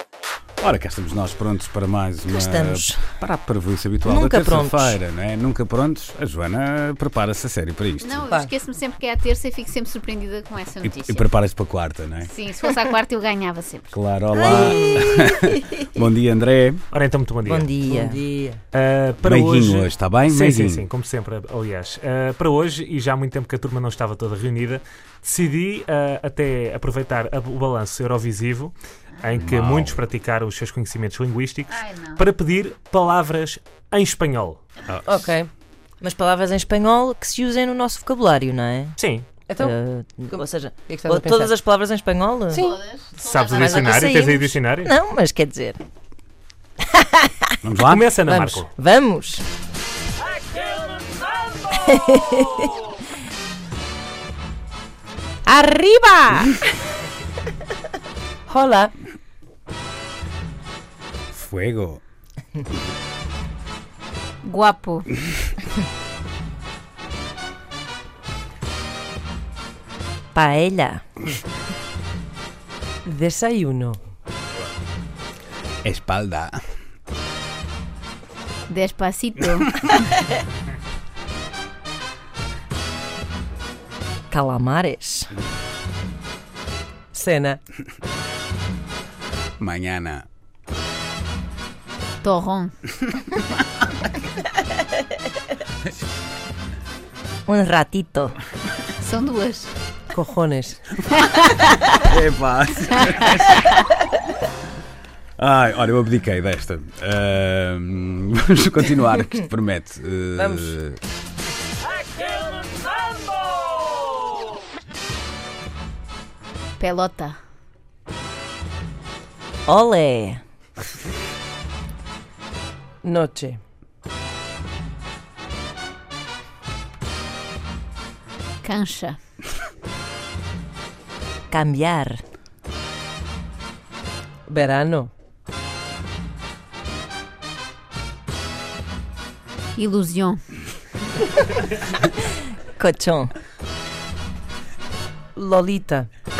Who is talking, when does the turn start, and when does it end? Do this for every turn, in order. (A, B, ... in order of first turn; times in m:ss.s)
0:00.6-0:08.2 A
0:02.3-0:03.1 B
0:04.0-0:05.0 B
0:08.0-0:11.3 C
0:10.8-0:12.3 A
0:12.2-0:13.9 C
0:13.9-0:16.8 A
0:14.4-0:15.5 B
0:16.9-0:17.7 D
0:17.4-0:18.2 B
0:17.8-0:18.6 E
0:18.7-0:34.6 D
0:19.2-0:20.9 A
0:29.4-0:30.0 A
0:31.7-0:32.2 C
0:34.9-0:35.3 A
0:35.1-0:35.5 E
0:36.0-0:39.0 B
0:39.0-0:39.3 D
0:39.5-0:39.8 E
0:39.6-0:42.7 B
0:40.3-0:41.6 E
0:42.5-0:42.8 E
0:42.5-0:43.7 C
0:43.1-0:44.9 D
0:43.5-0:45.8 B
0:46.9-0:47.6 B
0:47.6-0:48.1 A
0:47.8-0:48.7 D
0:48.3-0:48.6 E
0:48.7-0:49.4 B
0:51.7-0:52.7 B
0:55.5-0:56.7 B
0:58.5-0:58.9 E
1:01.3-1:02.0 A
1:04.4-1:05.1 C
1:10.3-1:11.0 B
1:13.0-1:14.0 E
1:15.8-1:16.6 A
1:18.7-1:19.9 C
1:24.3-1:25.3 B
1:27.1-1:27.6 E
1:29.6-1:30.2 A
1:32.2-1:32.7 C
1:37.5-1:38.4 B
1:39.0-1:39.7 C
1:40.1-1:40.9 E
1:41.2-1:41.5 C
1:41.9-1:43.6 A
1:45.4-1:51.0 A
1:50.4-1:50.7 E
1:56.8-1:57.4 C
1:59.7-2:00.4 B
2:03.0-2:03.6 E
2:08.6-2:09.2 C
2:11.5-2:12.2 B
2:14.5-2:15.1 E
2:19.8-2:20.4 C
2:22.8-2:23.3 B
2:25.3-2:26.1 E